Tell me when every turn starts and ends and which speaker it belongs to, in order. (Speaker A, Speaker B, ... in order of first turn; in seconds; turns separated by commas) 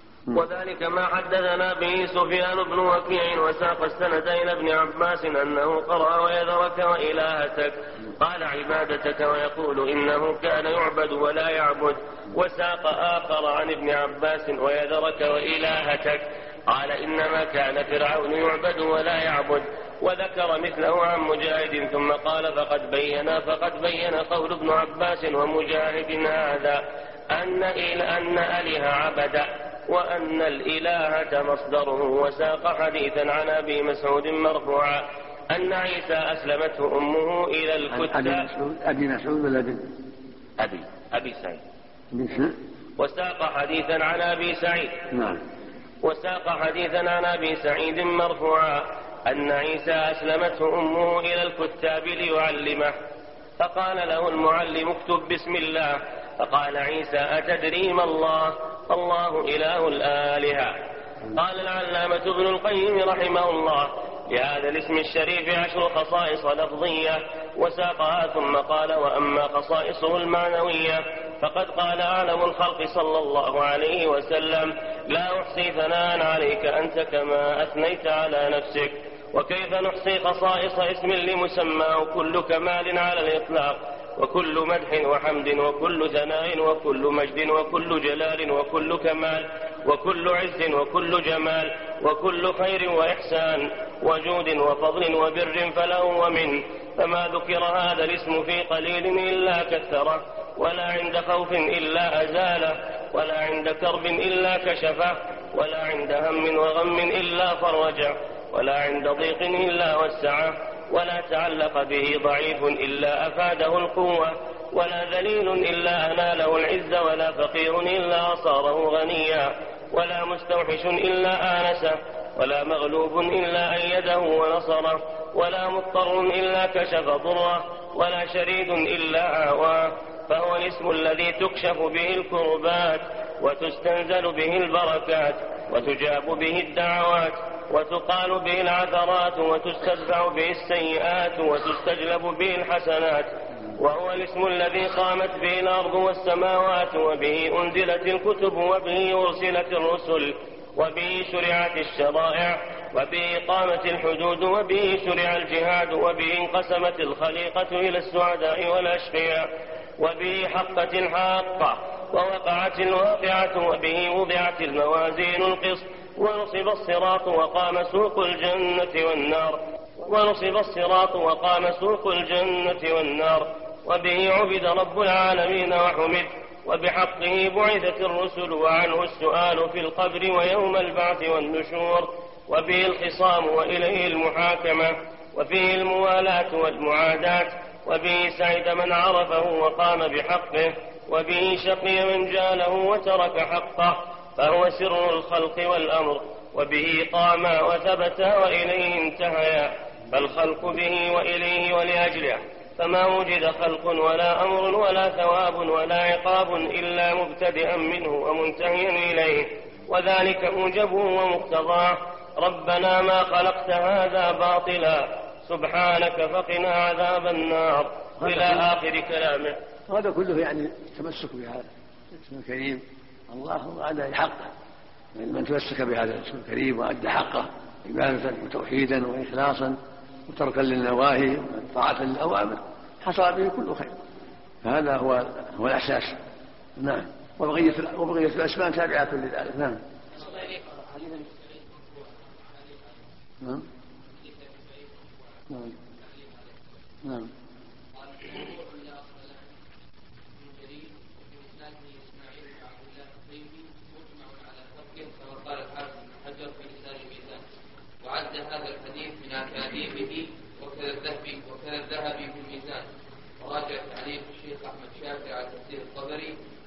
Speaker A: 0.3-38.5, Speaker B: 37.9-39.9, Speaker A: 40.6-41.6, Speaker B: 42.1-42.5, Speaker A: 43.0-45.0, Speaker B: 45.1-45.4, Speaker A: 46.0-52.9, Speaker A: 53.6-60.8, Speaker A: 61.3-159.5, Speaker A: 160.0-219.6, Speaker B: 218.2-218.6, Speaker B: 219.9-224.5, Speaker B: 225.1-233.9, Speaker B: 234.6-236.2, Speaker B: 236.8-239.8, Speaker C: 240.1-242.8, Speaker C: 244.1-246.6, Speaker B: 247.0-247.3, Speaker C: 247.9-249.4, Speaker C: 250.3-257.4, Speaker C: 258.0-262.9, Speaker C: 263.4-266.3